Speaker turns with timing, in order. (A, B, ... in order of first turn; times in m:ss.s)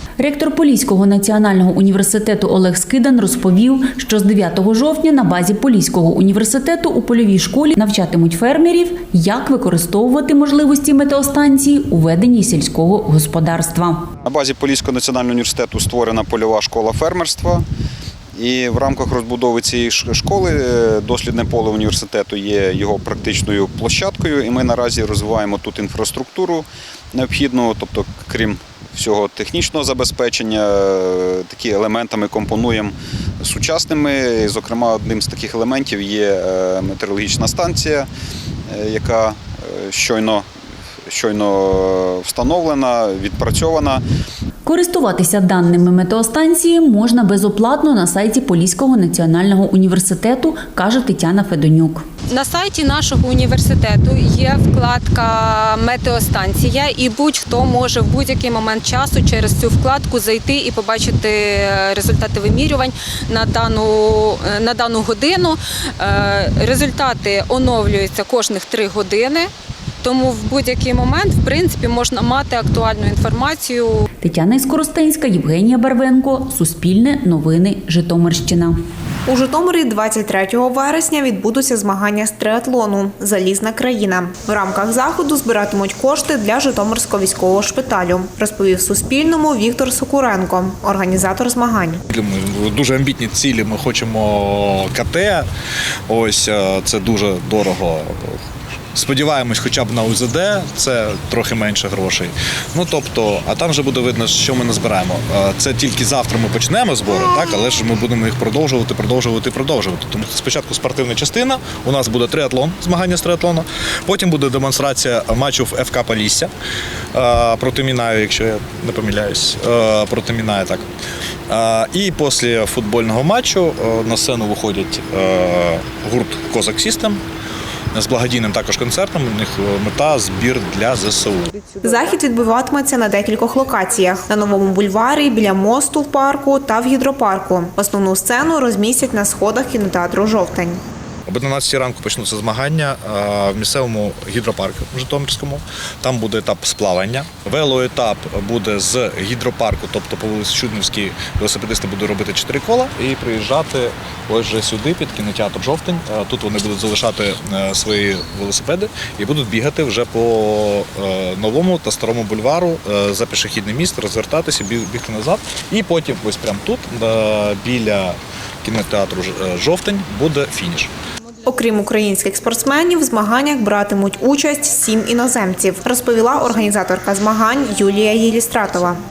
0:00.2-0:14.0 A
0:14.2-0:17.6 B
0:18.4-0:38.1 B
0:38.7-0:40.5 B
0:41.1-0:44.0 B
0:44.6-0:52.0 A
0:52.3-1:09.5 C
1:10.0-1:14.0 C
1:14.2-1:18.7 A
1:19.3-1:32.0 D
1:32.1-1:35.4 E
1:36.1-1:38.1 E
1:38.9-1:56.5 E
1:57.1-2:00.8 E
2:01.5-2:07.2 E
2:07.9-2:11.5 E
2:11.8-2:20.8 D
2:21.3-2:50.9 E
2:51.4-2:59.0 D